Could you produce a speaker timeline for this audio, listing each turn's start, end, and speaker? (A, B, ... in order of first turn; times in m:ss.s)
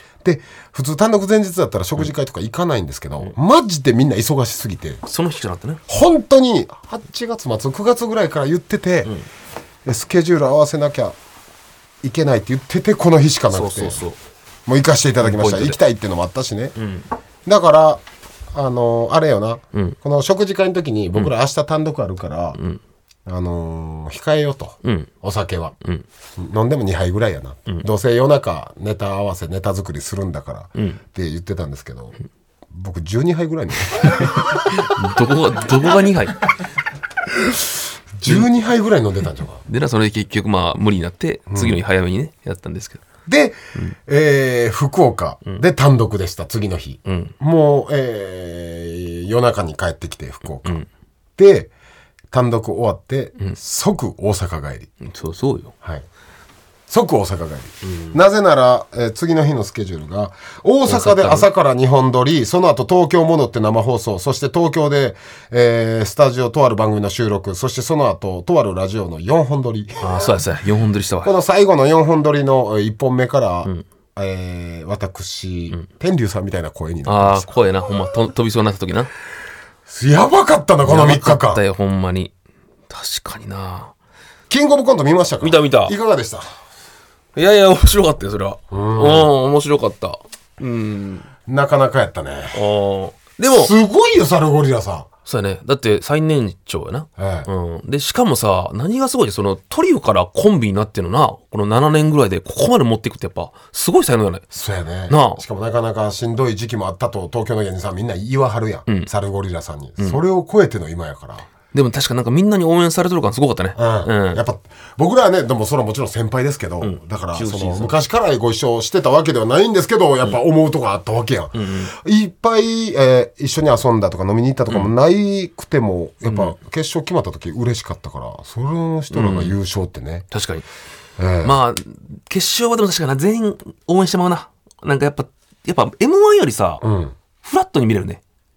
0:00.2-0:05.0 A
0:05.0-0:05.8 B
0:05.9-0:09.2 A
0:09.8-0:11.2 A
0:12.0-0:14.0 A
0:13.5-0:14.2 B
0:14.7-0:16.8 A
0:15.2-0:15.8 B
0:16.8-0:17.0 B
0:17.5-0:18.0 A
0:18.5-0:22.6 A
0:22.6-0:22.8 B
0:23.3-0:25.7 A
0:24.8-0:25.1 B
0:26.4-0:32.2 A
0:30.8-0:31.0 B
0:32.7-0:34.8 A
0:34.2-0:36.4 B
0:37.3-0:37.7 A
0:38.2-0:39.6 A
0:39.6-0:43.0 B
0:41.5-0:41.8 A
0:43.3-0:50.8 A
0:47.0-0:47.3 B
0:51.4-0:51.7 A
0:52.3-0:54.9 A
0:55.0-0:55.7 B
0:56.9-1:10.3 A
0:57.8-0:58.2 B
1:00.9-1:01.5 B
1:10.0-1:11.3 B
1:11.2-1:17.5 A
1:17.1-1:19.1 B
1:19.9-1:21.6 A
1:20.8-1:22.3 B
1:22.9-1:23.9 B
1:24.5-1:26.4 A
1:25.4-1:26.0 B
1:27.4-1:31.3 B
1:28.7-1:29.3 A
1:31.5-1:32.6 A
1:32.5-1:33.7 B
1:33.5-1:35.1 A
1:35.3-1:44.4 B
1:37.2-1:37.5 A
1:44.5-1:51.5 A
1:45.1-1:45.4 B
1:51.7-1:54.4 B
1:53.8-2:10.3 A
1:56.8-1:58.0 B
2:01.6-2:01.9 B
2:06.2-2:06.6 B
2:09.1-2:09.6 B
2:10.3-2:10.6 B
2:11.2-2:11.6 A
2:11.4-2:16.8 B
2:16.8-2:17.2 A
2:17.4-2:18.2 B